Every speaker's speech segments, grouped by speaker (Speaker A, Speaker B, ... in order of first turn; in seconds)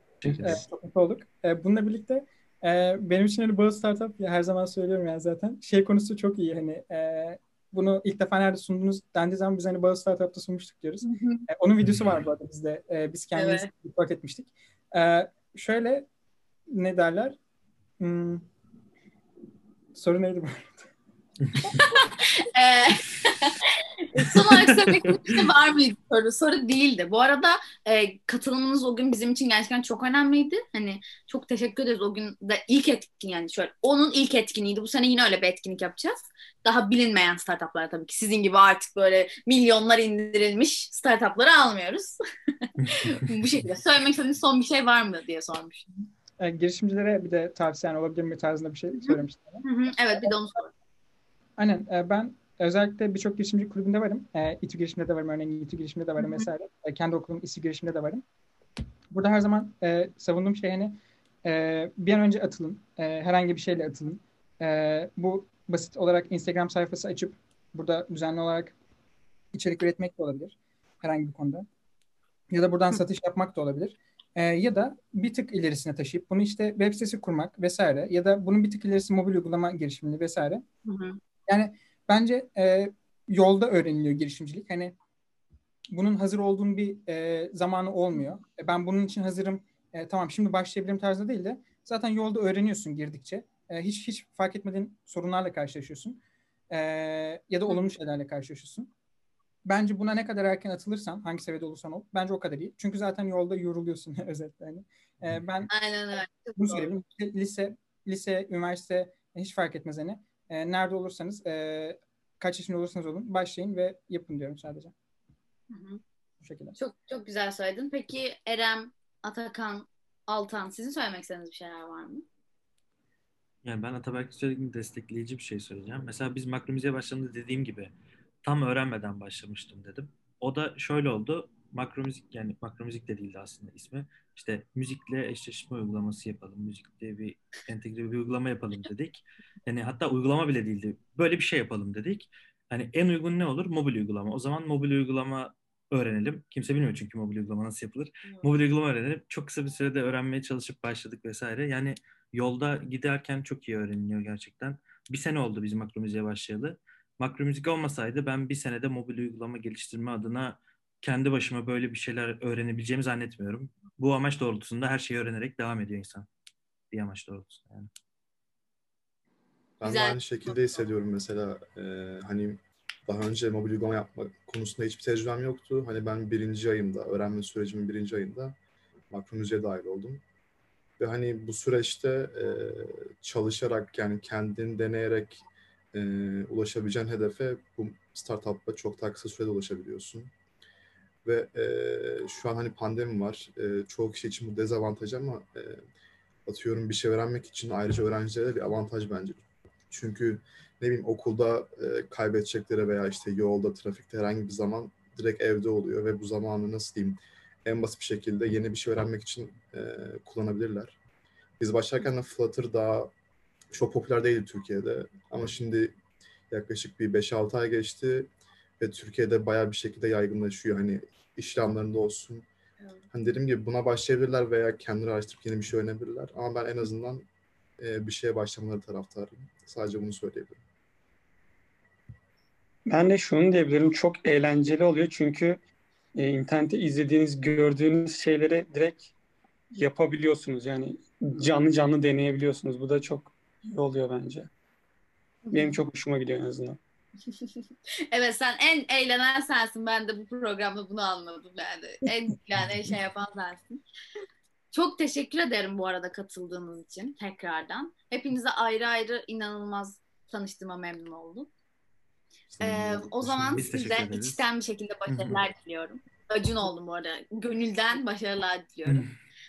Speaker A: 0.2-0.6, 11.8-12.1, 21.4-21.7, 24.3-24.6, 123.6-127.9, 128.4-166.3, 166.9-167.9, 263.5-264.4, 265.1-265.4
Speaker B: 0.3-16.1, 16.7-17.4, 18.0-18.4, 19.9-20.9, 46.4-49.6, 50.1-50.5, 51.6-58.2, 59.1-68.7, 69.5-71.6, 72.5-80.6, 81.5-84.9, 85.9-96.2, 96.7-98.9, 99.6-105.7, 106.6-114.9, 116.4-116.8
Speaker C: 11.0-11.4, 13.3-13.7, 21.6-45.9, 49.0-50.7, 56.2-56.5, 80.8-81.2, 105.7-106.9, 115.7-116.0, 116.8-122.2, 169.8-170.8, 245.4-245.8, 248.1-253.8, 254.7-261.5, 262.6-269.1
Speaker D: 169.8-178.6, 179.1-180.2, 181.0-190.3, 191.2-195.8, 196.4-210.9, 211.6-213.1, 213.7-215.9, 216.5-222.4, 223.1-227.3, 227.8-230.6, 262.5-264.1
Speaker E: 232.9-235.6, 236.2-239.1, 239.7-244.5, 245.5-246.8